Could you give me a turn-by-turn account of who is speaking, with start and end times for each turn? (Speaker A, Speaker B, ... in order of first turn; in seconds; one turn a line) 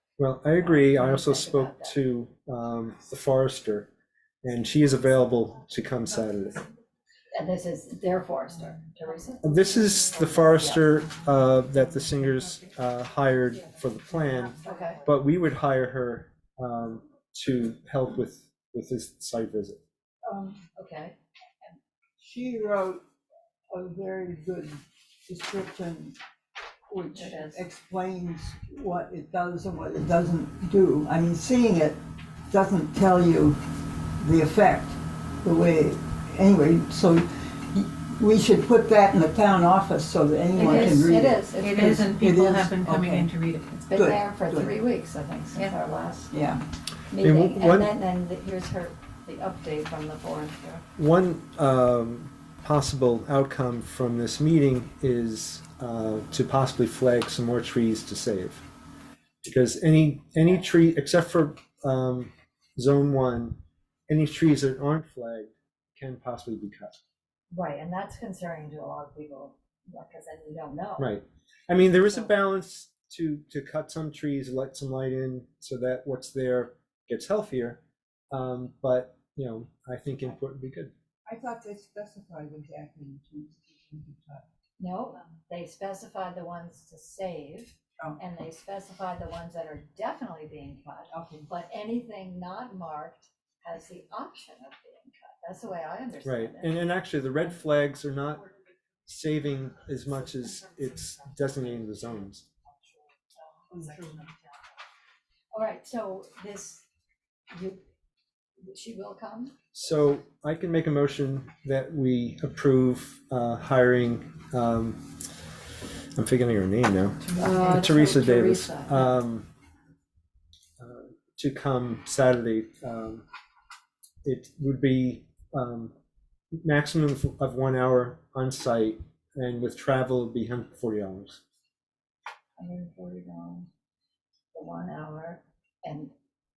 Speaker A: 0.2-3.9
Speaker B: 0.6-2.0
Speaker A: 4.4-6.7
Speaker B: 7.3-10.8
Speaker A: 9.4-19.8
Speaker B: 14.6-15.0
Speaker C: 20.2-20.6
Speaker B: 20.8-21.1
Speaker C: 22.2-23.0
Speaker C: 23.7-26.2
Speaker C: 26.9-32.0
Speaker B: 27.1-27.6
Speaker C: 32.5-33.6
Speaker C: 34.2-43.4
Speaker B: 40.5-42.1
Speaker D: 40.5-43.8
Speaker B: 43.7-46.3
Speaker C: 43.9-44.7
Speaker C: 46.3-46.6
Speaker B: 47.1-50.8
Speaker A: 47.2-48.0
Speaker A: 51.0-58.6
Speaker A: 59.4-67.0
Speaker B: 67.5-71.1
Speaker A: 71.0-80.9
Speaker C: 81.2-84.4
Speaker B: 84.8-96.9
Speaker C: 91.1-91.5
Speaker A: 96.2-98.5
Speaker A: 99.0-102.5
Speaker B: 103.3-104.3
Speaker B: 105.5-106.8
Speaker B: 107.5-107.8
Speaker B: 108.6-109.5
Speaker A: 109.7-115.0
Speaker A: 116.2-119.5
Speaker B: 117.3-119.1
Speaker A: 120.8-123.2
Speaker A: 124.2-125.9
Speaker A: 126.6-131.4
Speaker B: 132.6-133.7
Speaker B: 134.5-136.1